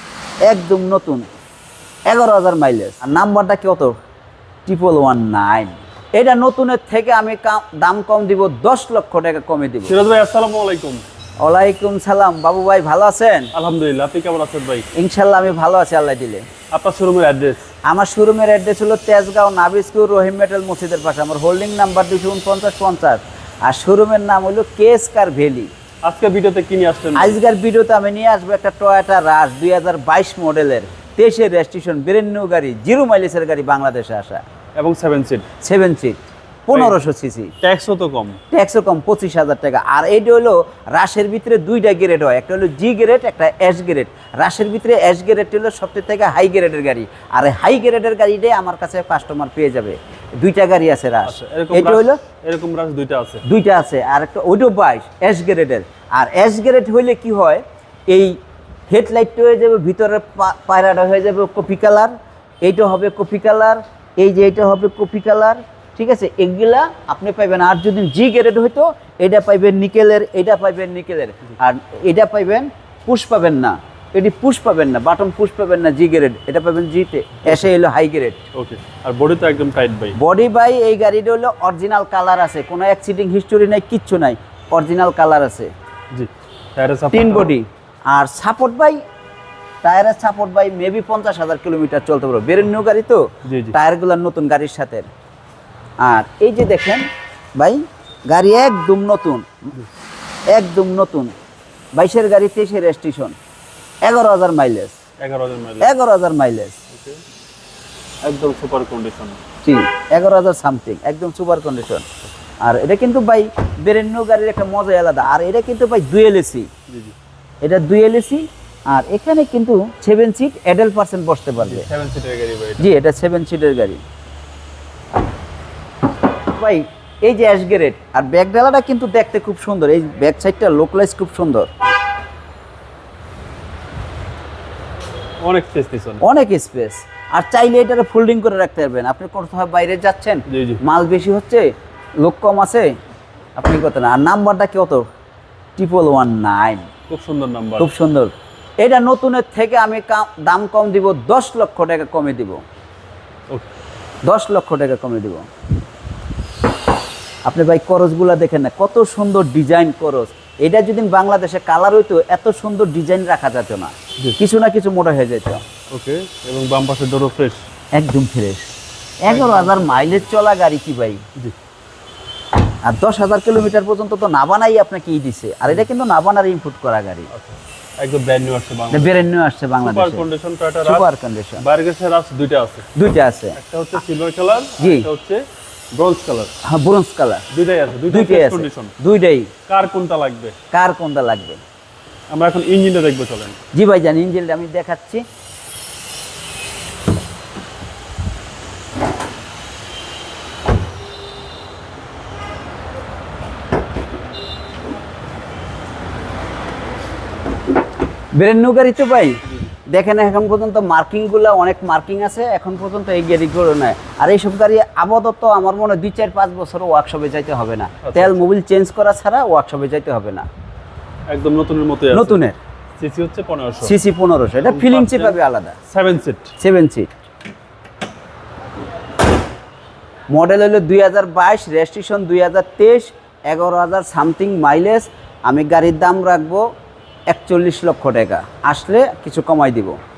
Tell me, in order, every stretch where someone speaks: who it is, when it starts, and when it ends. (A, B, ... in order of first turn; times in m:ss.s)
0:00.4-0:01.3 A
0:02.1-0:03.9 A
0:04.6-0:09.9 A
0:09.8-0:11.0 B
0:11.4-0:13.5 A
0:13.5-0:14.9 B
0:14.9-0:16.4 A
0:16.7-0:17.7 B
0:17.8-0:25.7 A
0:26.0-0:27.4 B
0:27.1-0:34.4 A
0:34.8-0:35.5 B
0:35.6-0:37.5 A
0:36.7-0:37.0 B
0:37.6-0:38.4 B
0:38.5-0:52.2 A
0:51.2-0:53.4 B
0:53.4-0:58.4 A
0:58.9-1:18.4 A
1:18.5-1:20.2 B
1:20.2-1:25.7 A
1:26.1-1:27.5 B
1:27.1-1:29.0 A
1:29.8-1:35.1 A
1:33.4-1:33.8 B
1:36.0-1:39.7 A
1:40.5-1:41.3 A
1:41.9-1:43.4 A
1:44.0-1:45.0 A
1:45.2-1:45.9 B
1:45.8-1:46.8 A
1:46.9-1:47.2 B
1:48.2-1:49.4 B
1:49.6-1:52.0 A
1:52.6-1:56.7 A
1:56.9-1:57.1 B
1:57.6-2:01.9 A
2:01.6-2:02.9 B
2:02.8-2:04.0 A
2:06.5-2:11.7 A
2:15.4-2:16.2 B
2:16.2-2:22.9 A
2:20.5-2:20.8 B
2:23.6-2:25.0 A
2:25.8-2:26.9 A
2:27.1-2:27.9 B
2:27.8-2:32.6 A
2:34.2-2:35.5 A
2:37.4-2:45.6 A
2:45.9-2:47.6 B
2:47.9-2:48.7 A
2:49.2-2:51.2 A
2:49.2-2:50.2 B
2:52.8-2:57.3 A
2:57.3-2:59.2 B
2:58.9-3:00.3 A
2:59.8-3:01.1 B
3:00.8-3:01.6 A
3:01.6-3:02.9 B
3:02.9-3:03.6 A
3:03.5-3:05.4 B
3:04.8-3:05.1 A
3:05.9-3:06.5 B
3:06.6-3:07.5 A
3:07.5-3:08.9 B
3:08.1-3:09.5 A
3:09.7-3:10.5 B
3:10.7-3:11.6 A
3:12.3-3:13.6 B
3:13.7-3:15.2 A
3:28.3-3:40.5 A
3:38.0-3:38.4 B
3:41.3-3:42.4 B
3:42.1-3:42.6 A
3:43.0-3:44.0 B
3:43.8-3:45.8 A
3:44.6-3:46.5 B
3:46.6-3:47.1 A
3:50.3-3:56.6 A
3:57.3-4:00.0 A